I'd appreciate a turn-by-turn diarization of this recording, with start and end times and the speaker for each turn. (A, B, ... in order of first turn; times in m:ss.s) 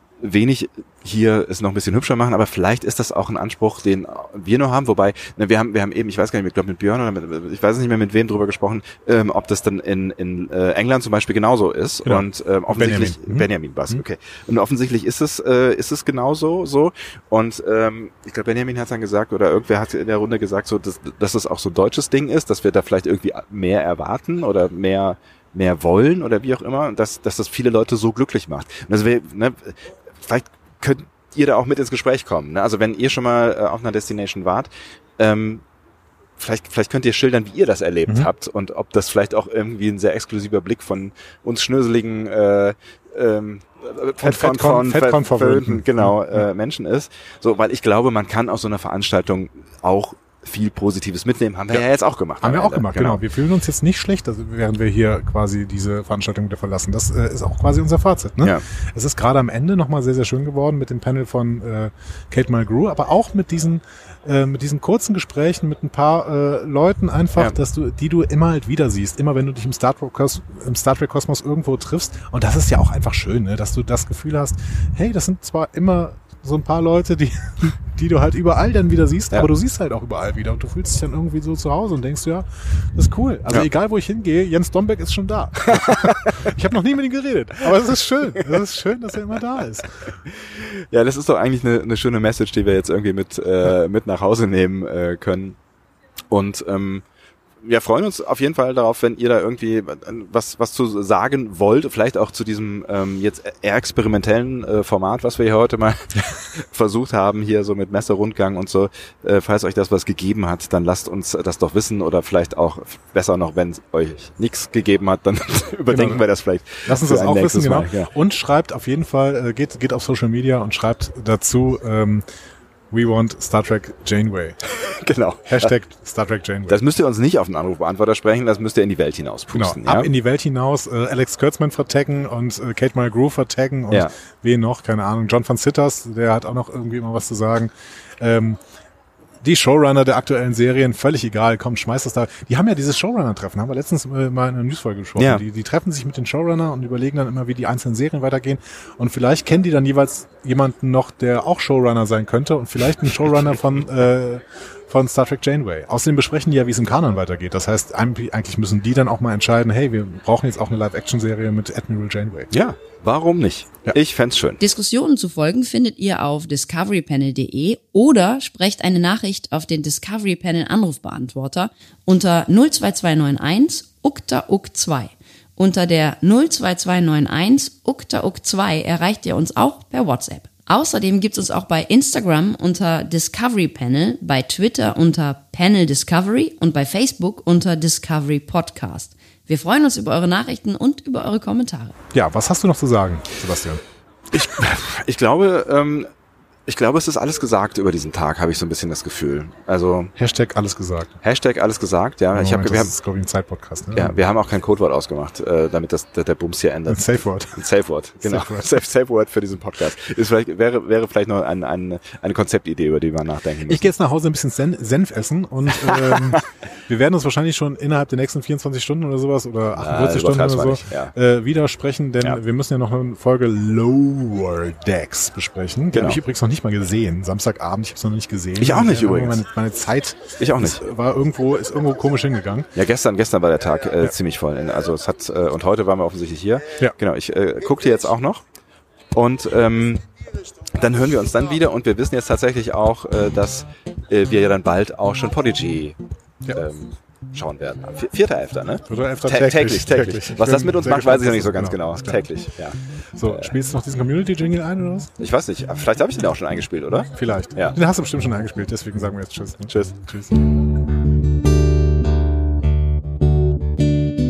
0:00.2-0:35.6 A
0:12.0-0:14.0 B
0:36.4-0:53.2 A
0:44.2-0:46.4 B
0:52.4-1:30.1 B
1:25.7-1:26.4 A
1:30.4-1:35.6 A
1:36.3-1:37.0 A
1:37.6-1:58.1 A
1:55.9-1:56.2 B
1:56.8-2:02.2 B
2:02.9-2:04.6 B
2:04.7-2:05.7 A
2:05.5-2:06.8 B
2:06.7-2:10.1 A
2:09.5-2:18.6 B
2:19.4-2:42.5 B
2:25.2-2:25.4 A
2:42.5-2:44.6 A
2:44.6-3:11.9 C
3:12.1-3:13.8 B
3:14.3-3:16.1 A
3:16.7-3:20.1 A
3:20.2-3:21.2 B
3:21.2-3:22.9 A
3:22.3-3:24.2 B
3:23.9-3:27.0 A
3:26.9-3:27.6 B
3:27.5-3:33.9 A
3:28.2-3:28.7 B
3:33.7-3:52.7 B
3:35.9-3:36.3 A
3:39.8-3:41.1 A
3:45.9-3:46.2 A
3:48.6-3:49.4 A
3:50.4-3:50.8 A
3:52.7-3:58.4 A
3:59.1-4:00.0 A
4:00.7-4:06.0 A
4:06.5-4:13.5 A
4:08.9-4:12.2 B
4:13.2-4:15.1 B
4:15.2-4:17.8 A
4:17.1-4:20.5 B
4:19.7-4:20.0 A